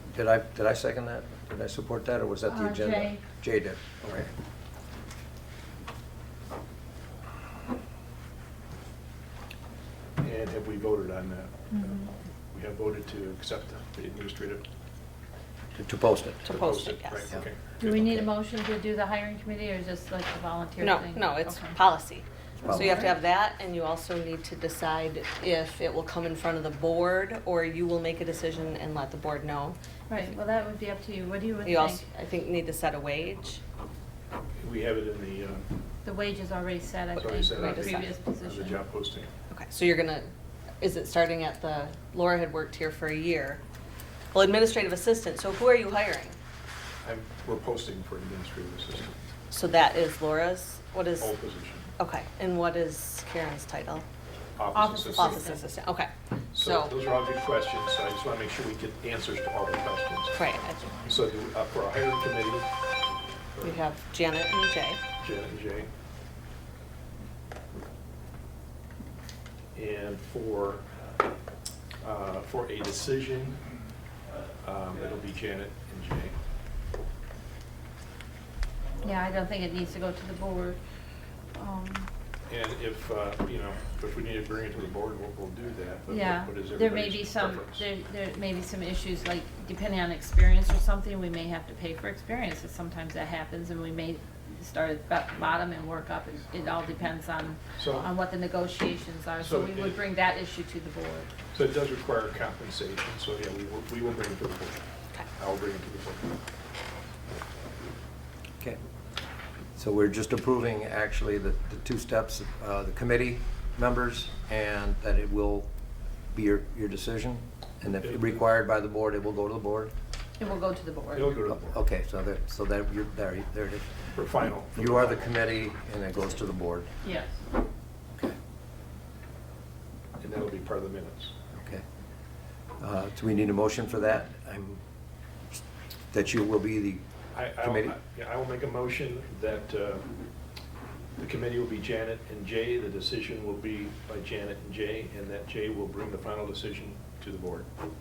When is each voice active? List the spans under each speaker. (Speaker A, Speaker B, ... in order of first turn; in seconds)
Speaker A: 0.1-4.3, 15.8-16.5, 22.6-23.1, 109.8-115.7, 116.3-119.9, 121.5-126.9, 131.5-131.8, 132.8-134.8, 136.1-137.0, 137.6-137.9
Speaker B: 2.5-3.2, 11.7-12.1, 17.8-21.8, 22.7-23.1, 30.1-32.0, 36.0-38.8, 54.7-55.6, 79.0-80.8, 81.5-82.1, 86.1-101.3, 120.4-121.4, 127.0-127.4
Speaker C: 10.2-12.0, 12.5-14.7, 16.4-18.2, 34.6-35.7, 37.2-39.3, 47.0-49.3, 51.2-51.9, 54.6-55.5, 56.5-60.4, 61.0-62.7, 65.2-65.9, 69.7-70.9, 72.0-73.6, 74.6-76.4, 82.5-87.9, 97.8-98.1, 99.4-100.0, 101.5-104.8, 105.3-106.3, 121.1-121.8, 124.2-125.4, 130.2-131.3, 137.3-140.1, 141.2-147.7
Speaker D: 16.4-17.3, 20.8-30.4, 31.6-33.6, 37.1-38.1, 39.5-40.3, 40.8-43.6, 44.3-46.4, 49.5-51.4, 52.0-54.1, 54.7-57.0, 60.3-61.1, 63.6-65.0